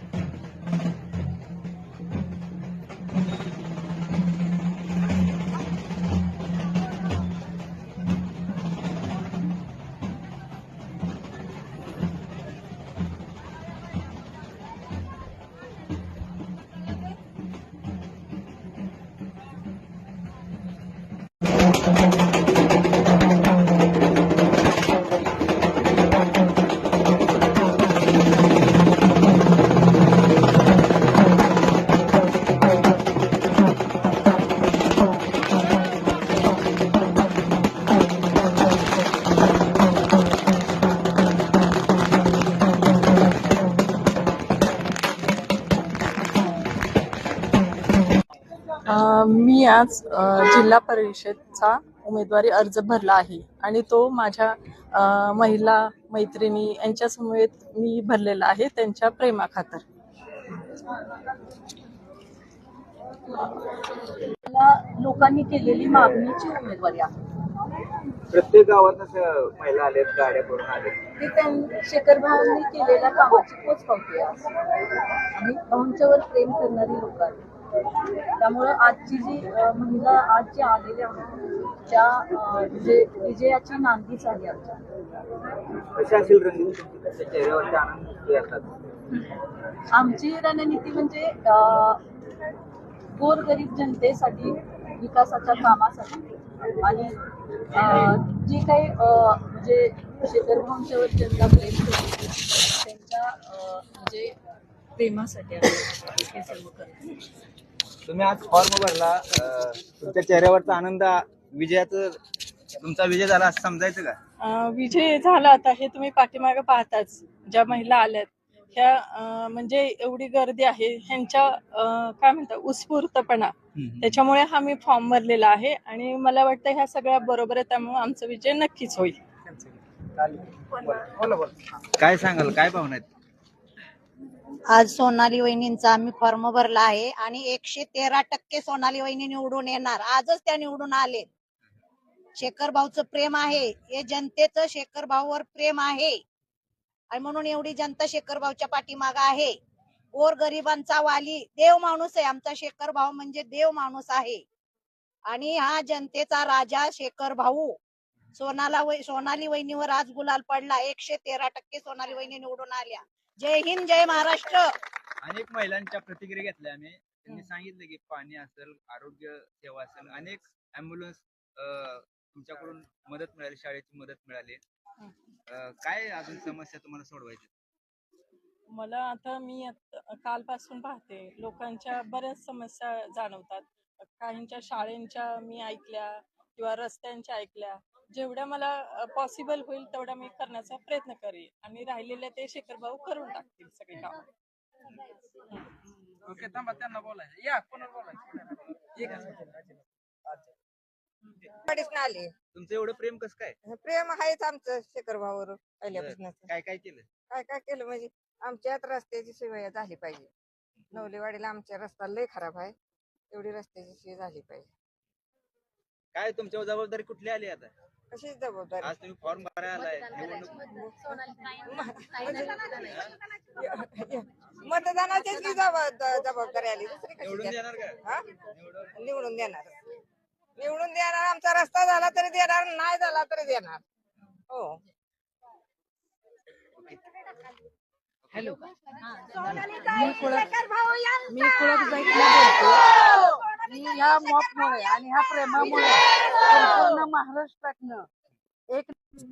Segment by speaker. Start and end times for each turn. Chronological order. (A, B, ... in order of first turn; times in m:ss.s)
0:48.8-0:59.8 A
1:04.5-1:07.1 B
1:08.3-1:11.0 C
1:11.2-1:14.4 B
1:15.4-1:17.4 B
1:18.4-1:21.4 B
1:21.9-1:24.7 B
1:26.0-1:28.7 C
1:29.9-1:32.0 B
1:33.2-1:36.2 B
1:36.8-1:37.1 B
1:37.8-1:44.3 B
1:45.0-1:46.9 B
1:48.0-1:52.2 C
1:52.8-1:54.2 C
1:54.4-2:09.2 A
2:03.8-2:04.2 C
2:11.1-2:11.5 D
2:12.0-2:13.1 C
2:14.7-2:21.3 E
2:22.4-2:26.2 E
2:27.1-2:29.6 E
2:30.2-2:34.4 E
2:35.3-2:37.7 E
2:38.3-2:44.7 E
2:45.2-2:54.6 C
2:55.5-2:57.5 C
2:58.7-3:14.2 A
3:16.3-3:18.0 C
3:19.0-3:19.3 C
3:21.7-3:22.3 F
3:22.5-3:23.6 C
3:23.7-3:26.5 F
3:25.9-3:27.0 C
3:27.3-3:30.3 F
3:30.9-3:32.7 F
3:33.3-3:34.7 F
3:36.1-3:37.7 C
3:38.1-3:38.9 F
3:38.8-3:40.9 C
3:41.5-3:43.0 F
3:43.5-3:48.3 F
3:47.2-3:48.9 C
3:49.0-3:49.7 F
3:50.6-3:53.8 F
3:54.5-3:54.8 F
3:59.3-4:00.5 D
3:59.6-4:01.0 F
4:01.3-4:02.8 D
4:03.5-4:08.1 D
4:08.7-4:08.9 D